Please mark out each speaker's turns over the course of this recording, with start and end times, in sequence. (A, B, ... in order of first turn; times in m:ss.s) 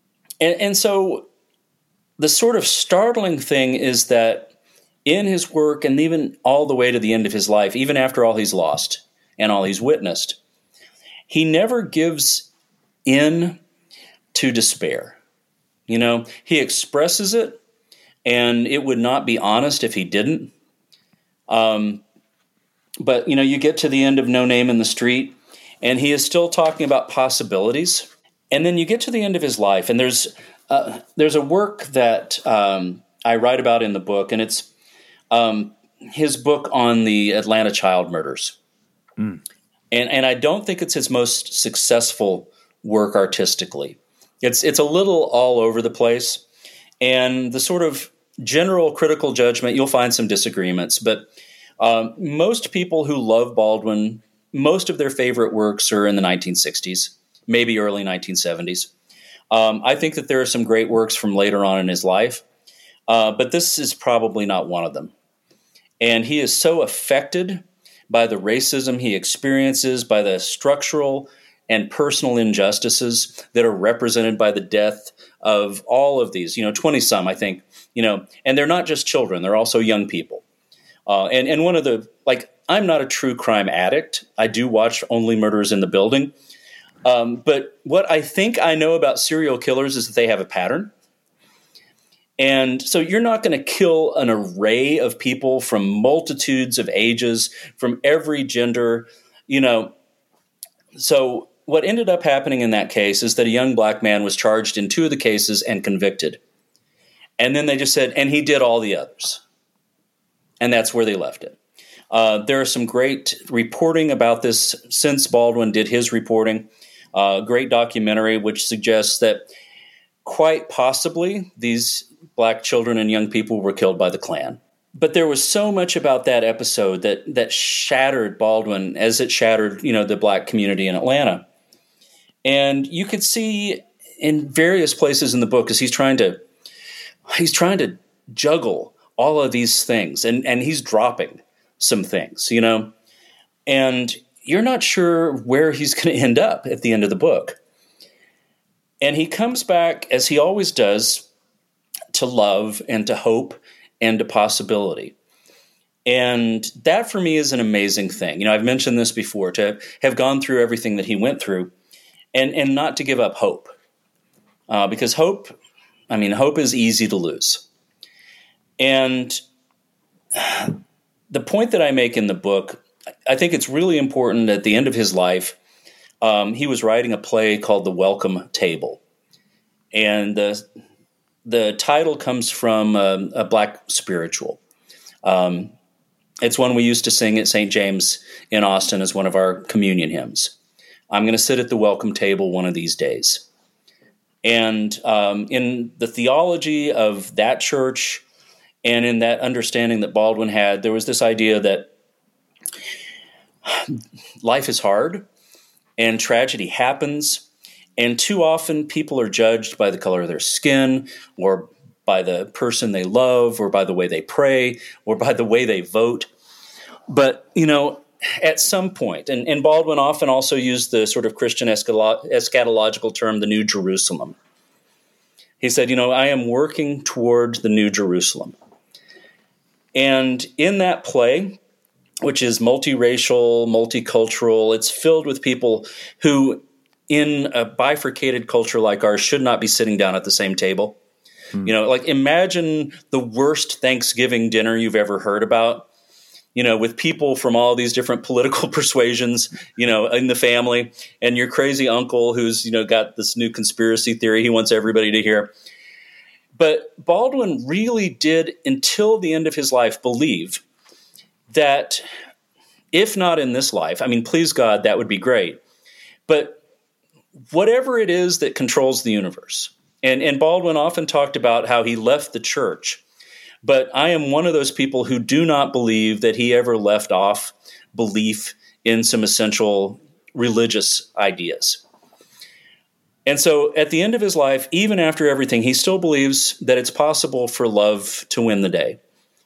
0:00.4-0:01.3 A
0:02.2-0:04.5 A
0:05.0-0:10.4 A
0:11.3-0:12.5 A
0:13.0-0:13.6 A
0:14.3-0:15.2 A
0:15.9-0:17.6 A
0:18.2-0:20.5 A
0:21.5-0:22.0 A
0:23.0-0:34.7 A
0:35.3-0:38.6 A
0:39.9-0:46.4 A
0:47.0-0:51.3 A
0:51.8-0:58.9 A
0:59.5-1:02.4 A
1:03.1-1:05.1 A
1:06.0-1:20.4 A
1:21.1-1:26.3 A
1:27.0-1:30.9 A
1:32.4-1:39.9 A
1:41.0-1:46.4 A
1:47.4-1:49.4 A
1:50.6-1:51.6 A
1:52.1-1:59.5 A
2:00.2-2:11.4 A
2:12.4-2:16.4 A
2:17.3-2:22.9 A
2:23.7-2:27.6 A
2:29.0-2:31.2 A
2:32.1-2:35.1 A
2:36.0-2:41.7 A
2:42.3-2:43.7 A
2:44.7-2:45.5 A
2:46.1-2:47.6 A
2:48.8-2:49.4 A
2:50.3-2:50.8 A
2:51.3-2:55.6 A
2:56.2-2:59.0 A
2:59.9-3:00.6 A
3:01.4-3:04.6 A
3:05.2-3:05.7 A
3:06.4-3:10.5 A
3:11.1-3:13.4 A
3:14.4-3:18.2 A
3:18.8-3:21.9 A
3:23.6-3:25.2 A
3:26.0-3:27.4 A
3:28.0-3:36.3 A
3:37.1-3:44.4 A
3:45.6-3:48.5 A
3:49.9-3:51.6 A
3:52.2-4:01.0 A
4:01.6-4:05.9 A
4:06.5-4:15.5 A
4:16.6-4:20.6 A
4:21.5-4:22.0 A
4:22.9-4:25.6 A
4:26.3-4:26.6 A
4:27.5-4:33.0 A
4:33.6-4:41.8 A
4:43.2-4:49.0 A